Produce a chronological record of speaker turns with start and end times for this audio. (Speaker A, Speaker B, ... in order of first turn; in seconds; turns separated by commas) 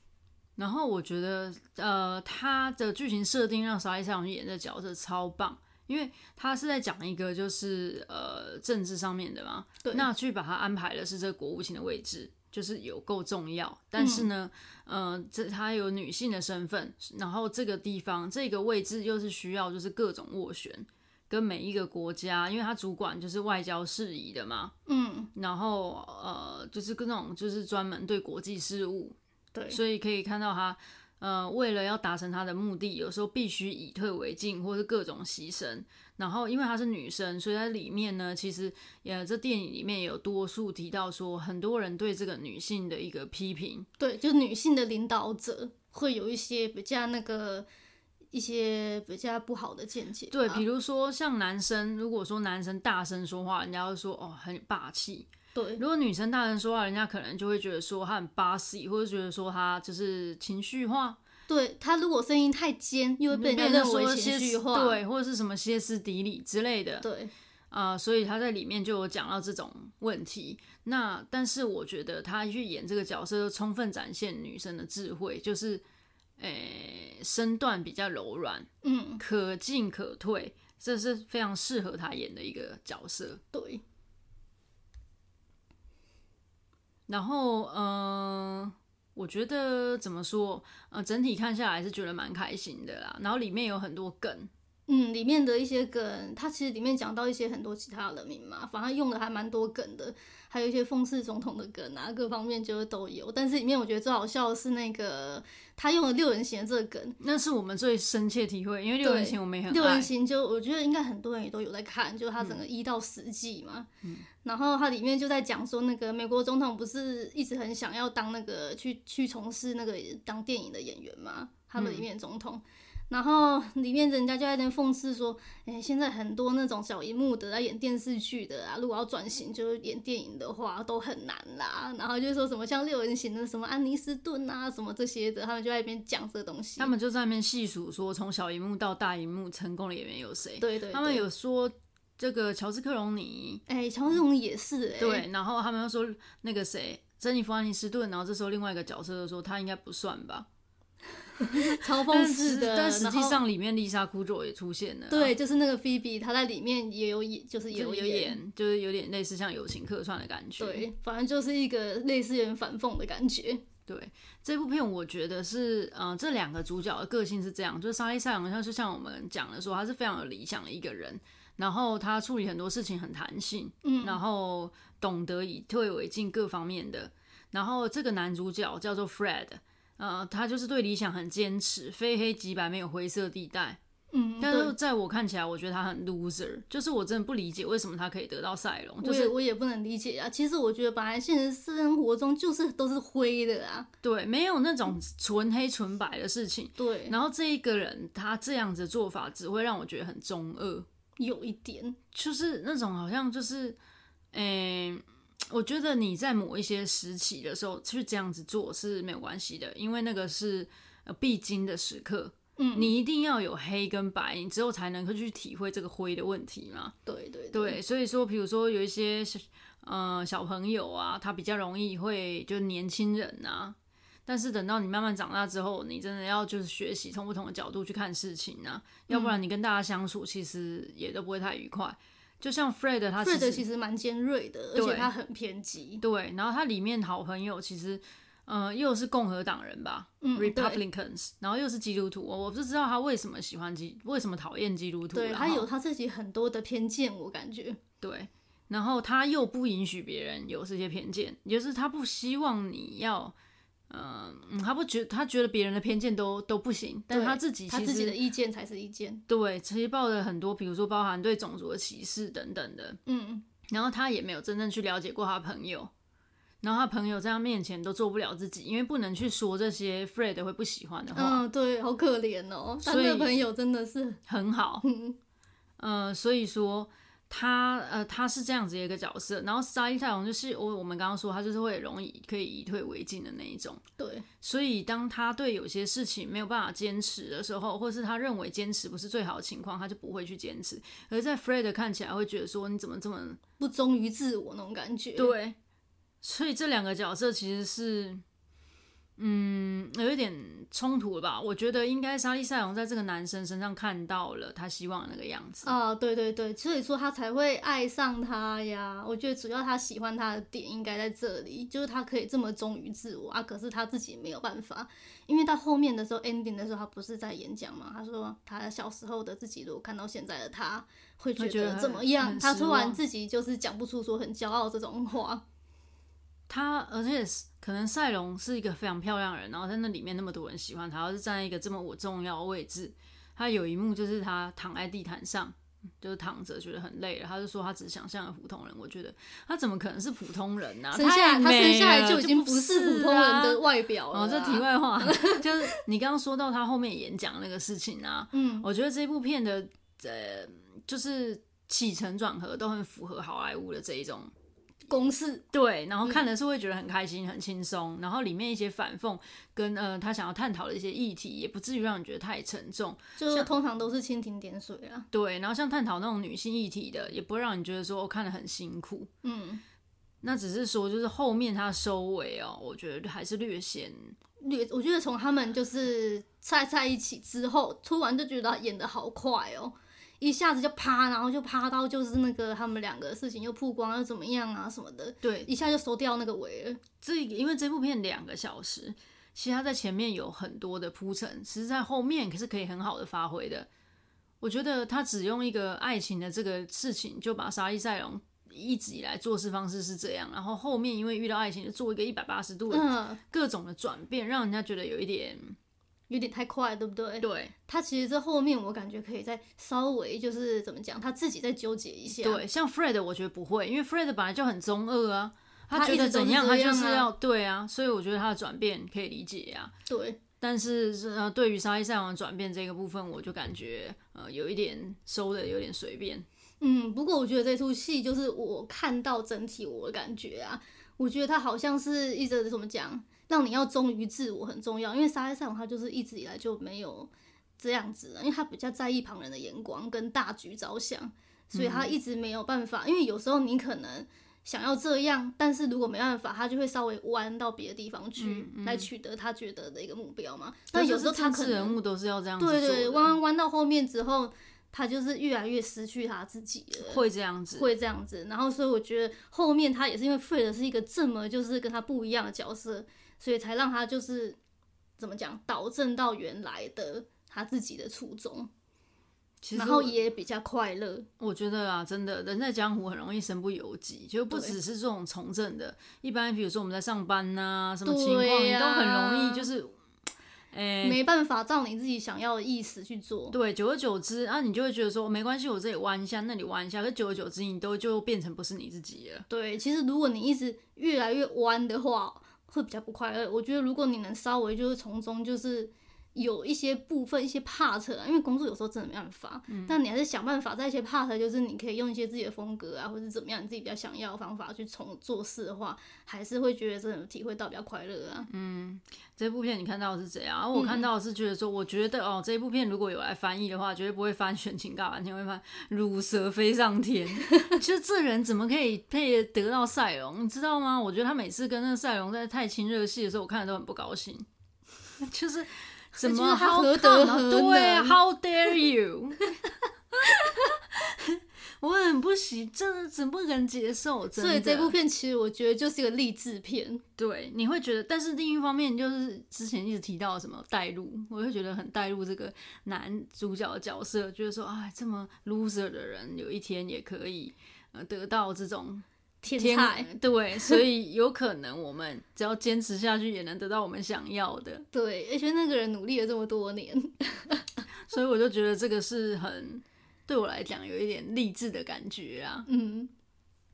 Speaker A: 0.6-24.7, Speaker B: 14.0-14.3, Speaker B: 24.9-25.3, Speaker A: 25.3-29.1, Speaker B: 29.5-29.8, Speaker A: 29.7-43.9, Speaker B: 44.0-47.7, Speaker B: 48.3-50.6, Speaker A: 50.3-61.2, Speaker B: 55.5-55.8, Speaker B: 61.5-65.0, Speaker A: 63.3-67.1, Speaker B: 67.0-67.3, Speaker A: 67.7-75.8, Speaker A: 76.4-83.4, Speaker B: 78.8-79.2, Speaker B: 83.5-83.8, Speaker A: 87.1-94.5, Speaker B: 94.9-107.2, Speaker A: 107.2-110.1, Speaker B: 109.0-113.9, Speaker B: 114.4-136.9, Speaker A: 121.8-122.0, Speaker A: 136.8-143.6, Speaker B: 140.6-141.2, Speaker B: 143.7-145.2, Speaker A: 145.0-150.5, Speaker B: 151.4-153.4, Speaker A: 151.5-155.3, Speaker B: 155.1-158.4, Speaker A: 157.7-160.8, Speaker B: 160.6-163.6, Speaker A: 163.9-183.8, Speaker B: 173.8-174.2, Speaker B: 184.1-184.7, Speaker A: 184.4-189.3, Speaker B: 189.0-193.9, Speaker A: 194.0-200.8, Speaker B: 196.8-197.2, Speaker B: 201.2-202.0, Speaker A: 202.1-203.8, Speaker A: 204.3-216.9, Speaker B: 212.6-212.9, Speaker B: 217.1-217.8, Speaker A: 217.5-223.7, Speaker A: 224.3-233.6, Speaker B: 229.1-229.3, Speaker B: 233.2-236.0, Speaker A: 234.7-235.1, Speaker A: 236.0-245.7, Speaker B: 240.2-240.8, Speaker B: 245.1-247.8, Speaker A: 248.0-253.3, Speaker A: 253.9-258.2, Speaker B: 257.1-259.2, Speaker A: 259.3-263.0, Speaker B: 263.1-263.4, Speaker A: 263.7-265.9, Speaker A: 266.6-271.4, Speaker B: 271.1-274.2, Speaker A: 272.8-273.4, Speaker A: 274.3-274.8, Speaker B: 274.8-275.2, Speaker A: 275.8-283.8, Speaker B: 284.0-284.2, Speaker A: 284.4-293.4, Speaker B: 293.6-295.3, Speaker A: 295.1-295.6, Speaker A: 296.2-298.2, Speaker A: 299.2-305.7, Speaker B: 305.6-325.4, Speaker A: 321.4-323.0, Speaker A: 326.5-354.3, Speaker B: 340.9-345.7, Speaker B: 348.3-348.7, Speaker B: 354.9-355.4, Speaker A: 355.5-363.5, Speaker B: 363.2-365.1, Speaker A: 365.1-369.1, Speaker B: 369.2-369.6, Speaker A: 370.2-374.1, Speaker B: 374.4-386.8, Speaker A: 385.2-385.5, Speaker A: 387.0-393.7, Speaker A: 394.4-405.6, Speaker B: 402.7-403.2, Speaker B: 406.1-412.4, Speaker A: 407.2-407.5, Speaker A: 412.1-419.7, Speaker B: 415.7-417.1, Speaker B: 419.9-420.2, Speaker A: 420.4-426.2, Speaker B: 426.6-451.8, Speaker A: 441.5-441.9, Speaker A: 448.2-448.9, Speaker A: 450.7-453.2, Speaker B: 452.4-464.4, Speaker A: 456.8-457.7, Speaker B: 465.0-468.5, Speaker A: 469.4-470.0, Speaker B: 469.5-471.1, Speaker A: 471.2-479.8, Speaker B: 474.3-474.6, Speaker B: 477.8-479.5, Speaker A: 480.5-481.0, Speaker B: 480.8-483.3, Speaker A: 483.3-489.2, Speaker B: 489.3-508.3, Speaker A: 499.5-499.8, Speaker A: 508.3-524.2, Speaker B: 510.5-510.9, Speaker A: 525.0-529.3, Speaker B: 526.0-528.0, Speaker A: 530.0-534.7, Speaker B: 534.1-536.8, Speaker A: 537.0-554.6, Speaker B: 549.2-549.9, Speaker B: 554.7-557.6, Speaker A: 557.8-562.5, Speaker B: 562.5-562.9